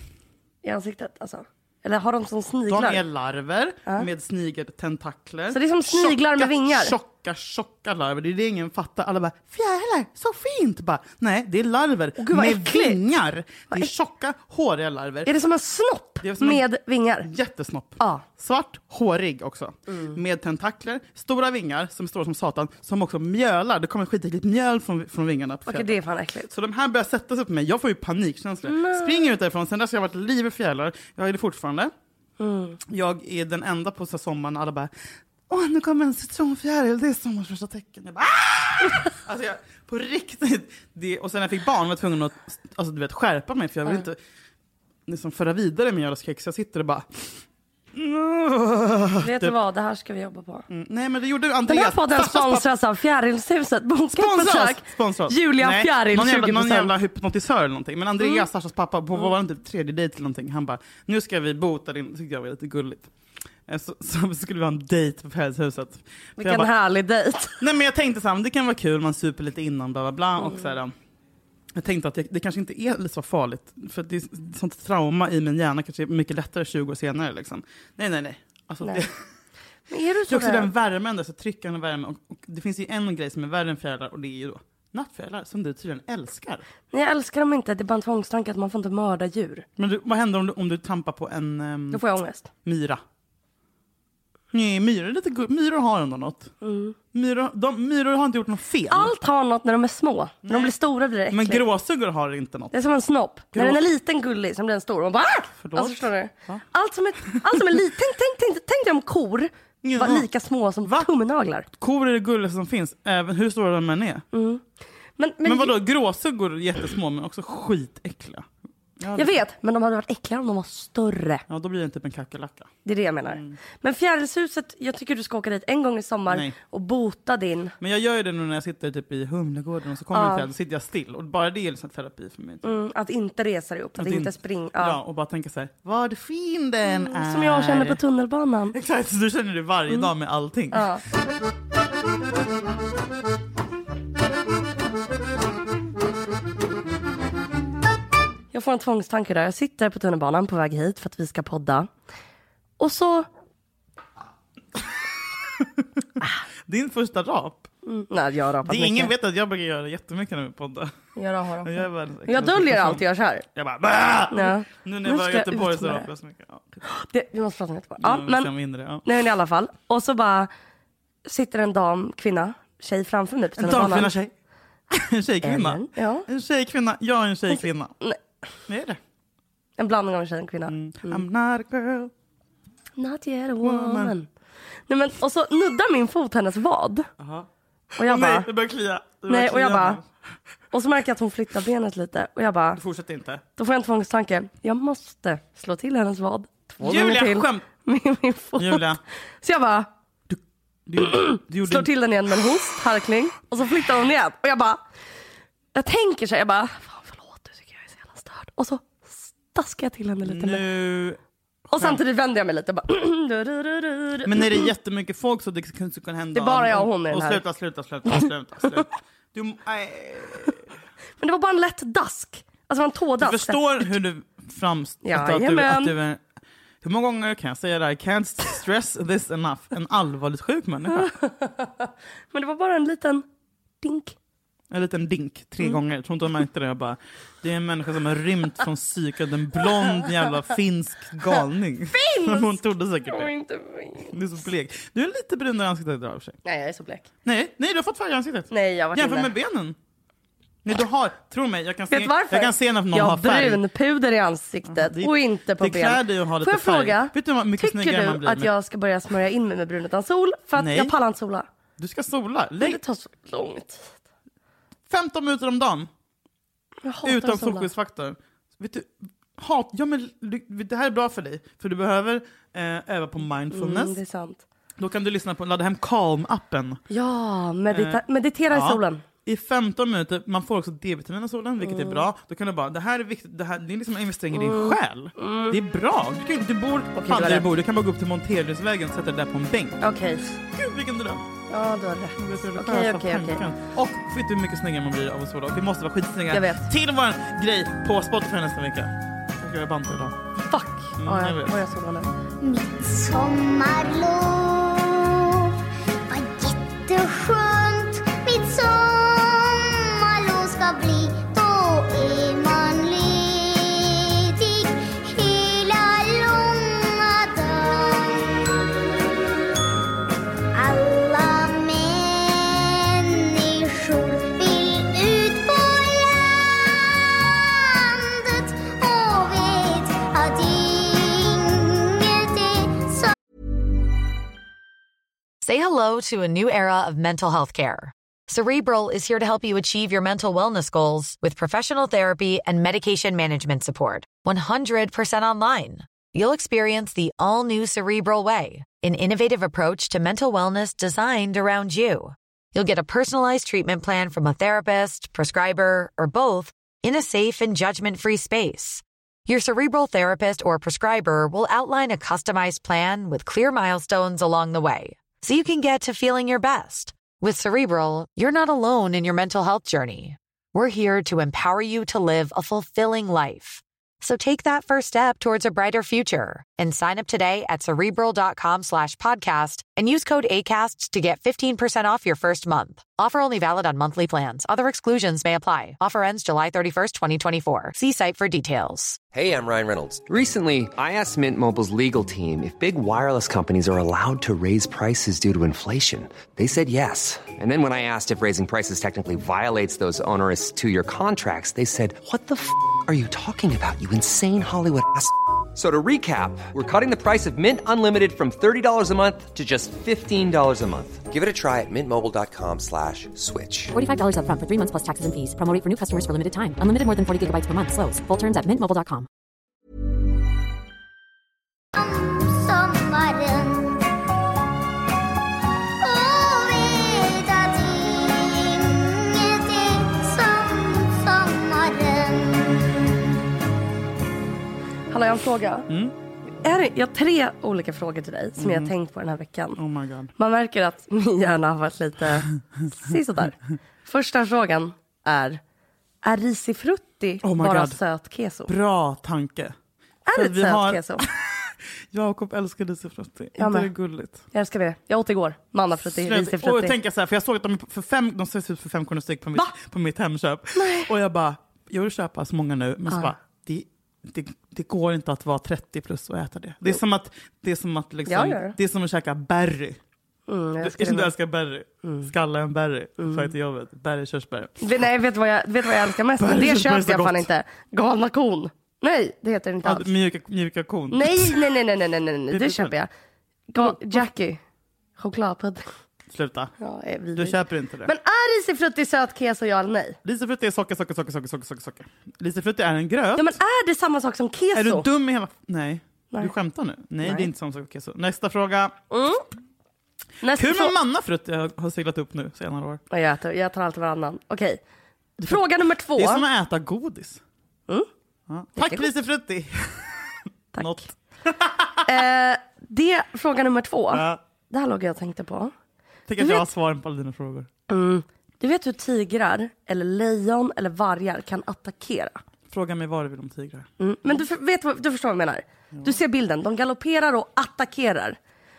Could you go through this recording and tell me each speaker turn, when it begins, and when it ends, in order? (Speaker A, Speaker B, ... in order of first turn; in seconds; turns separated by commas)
Speaker A: 0.6-3.0, Speaker B: 2.7-15.3, Speaker A: 5.5-6.9, Speaker A: 12.2-13.0, Speaker A: 15.2-17.3, Speaker B: 16.2-16.6, Speaker B: 17.2-25.9, Speaker A: 19.9-20.2, Speaker A: 25.7-26.5, Speaker B: 26.5-31.9, Speaker A: 28.7-29.1, Speaker A: 32.4-32.8, Speaker B: 32.9-34.9, Speaker B: 35.5-44.2, Speaker B: 45.1-47.3, Speaker B: 47.9-49.5, Speaker A: 49.2-50.6, Speaker B: 50.7-52.6, Speaker A: 51.7-56.9, Speaker B: 54.1-63.1, Speaker B: 63.7-66.7, Speaker A: 66.4-67.6, Speaker B: 67.6-70.9, Speaker A: 70.4-70.7, Speaker B: 71.7-79.2, Speaker A: 79.9-80.7, Speaker B: 80.3-86.6, Speaker A: 86.9-89.6, Speaker B: 89.8-92.0, Speaker A: 91.9-92.5, Speaker B: 92.6-93.0, Speaker B: 94.5-96.5, Speaker A: 96.6-96.9, Speaker B: 97.1-99.1, Speaker A: 98.9-101.6, Speaker B: 100.5-100.7, Speaker B: 101.3-102.7, Speaker A: 102.7-111.7, Speaker B: 103.5-103.8, Speaker B: 105.6-106.6, Speaker B: 107.2-107.7, Speaker B: 109.8-110.3, Speaker B: 111.8-114.2, Speaker A: 114.3-114.6, Speaker A: 115.2-115.8, Speaker B: 115.4-118.5, Speaker B: 119.0-119.4, Speaker A: 119.2-121.4, Speaker B: 121.5-122.7, Speaker A: 122.8-127.7, Speaker B: 123.3-123.6, Speaker B: 126.3-126.5, Speaker B: 127.8-132.7, Speaker A: 130.1-130.5, Speaker A: 132.6-135.0, Speaker B: 134.0-138.0, Speaker A: 136.9-138.8, Speaker B: 138.7-141.0, Speaker A: 140.7-141.0, Speaker A: 148.5-151.9, Speaker A: 152.8-153.3, Speaker B: 155.6-155.8, Speaker B: 156.7-157.7, Speaker A: 157.8-159.1, Speaker B: 158.7-160.9, Speaker A: 161.2-163.4, Speaker B: 161.6-166.8, Speaker A: 164.3-166.1, Speaker A: 166.8-168.5, Speaker B: 168.0-169.1, Speaker A: 169.0-170.5, Speaker A: 171.2-174.1, Speaker B: 173.6-174.3, Speaker B: 174.9-177.9, Speaker A: 175.4-176.2, Speaker A: 177.5-178.2, Speaker B: 178.7-179.0, Speaker A: 179.8-181.2, Speaker B: 180.7-182.1, Speaker A: 183.0-184.3, Speaker B: 183.6-184.1, Speaker A: 184.9-187.1, Speaker B: 187.2-187.5, Speaker A: 188.0-188.5, Speaker B: 188.0-190.1, Speaker A: 189.3-190.0, Speaker A: 190.7-192.8, Speaker B: 192.8-193.4, Speaker A: 193.6-199.9, Speaker B: 196.8-197.6, Speaker B: 198.6-199.0, Speaker B: 200.3-201.9, Speaker A: 201.0-204.8, Speaker A: 205.7-210.6, Speaker B: 210.2-211.2, Speaker A: 211.7-214.7, Speaker B: 214.2-220.6, Speaker A: 216.3-217.4, Speaker A: 221.2-223.9, Speaker B: 223.2-226.2, Speaker A: 225.0-225.9, Speaker B: 226.8-231.1, Speaker A: 230.9-233.2, Speaker A: 233.8-234.1, Speaker B: 234.7-243.3, Speaker A: 241.9-244.2, Speaker B: 244.1-246.4, Speaker A: 246.4-247.1, Speaker B: 247.2-249.8, Speaker A: 248.5-249.3, Speaker B: 250.6-253.6, Speaker A: 251.9-261.5, Speaker B: 254.7-258.5, Speaker B: 260.6-260.9, Speaker B: 261.8-262.8, Speaker A: 262.6-263.9, Speaker B: 264.9-265.9, Speaker A: 266.8-267.7, Speaker B: 267.0-274.0, Speaker A: 273.5-274.4, Speaker B: 274.8-276.8, Speaker A: 276.9-279.0, Speaker B: 277.7-278.0, Speaker B: 278.5-289.8, Speaker A: 281.6-282.0, Speaker A: 284.3-285.6, Speaker A: 286.9-287.5, Speaker A: 289.8-290.3, Speaker B: 290.5-291.3, Speaker A: 291.5-293.4, Speaker B: 292.2-300.1, Speaker A: 296.3-296.7, Speaker A: 300.5-302.1, Speaker B: 301.0-301.6, Speaker C: 302.4-305.5, Speaker C: 306.1-318.7, Speaker C: 320.5-333.1, Speaker D: 335.4-389.0, Speaker E: 389.1-413.7, Speaker F: 413.7-419.1, Speaker C: 421.7-423.8, Speaker C: 425.8-432.8, Speaker A: 434.9-435.7, Speaker B: 435.7-435.9, Speaker A: 436.4-439.6, Speaker B: 438.4-438.7, Speaker B: 439.6-440.1, Speaker A: 440.2-445.4, Speaker A: 446.0-448.5, Speaker B: 447.2-447.8, Speaker B: 448.5-449.5, Speaker A: 450.1-451.1, Speaker B: 450.1-454.2, Speaker A: 453.4-453.7, Speaker A: 454.3-456.7, Speaker B: 455.8-469.8, Speaker A: 460.5-460.9, Speaker A: 468.1-468.5, Speaker A: 470.3-471.1, Speaker B: 470.6-474.7, Speaker A: 471.8-472.1, Speaker A: 473.0-473.3, Speaker A: 474.6-479.9, Speaker B: 476.2-477.3, Speaker B: 479.6-481.6, Speaker A: 480.9-482.9, Speaker B: 482.3-482.7, Speaker A: 483.5-484.4, Speaker B: 483.6-484.0, Speaker A: 485.0-485.7, Speaker B: 486.1-486.5, Speaker A: 486.6-490.0, Speaker B: 487.1-487.9, Speaker B: 490.0-493.4, Speaker A: 493.1-494.9, Speaker B: 494.5-498.8, Speaker A: 497.0-497.3, Speaker A: 498.9-499.2, Speaker A: 500.2-500.7, Speaker B: 500.4-502.8, Speaker A: 502.9-504.6, Speaker A: 505.2-506.2, Speaker B: 505.9-507.2, Speaker B: 508.3-511.8, Speaker A: 508.6-508.9, Speaker A: 510.5-510.9, Speaker A: 511.8-515.5, Speaker B: 513.9-514.2, Speaker B: 516.1-517.5, Speaker A: 516.2-516.4, Speaker A: 517.7-522.2, Speaker B: 522.5-523.7, Speaker A: 523.8-528.2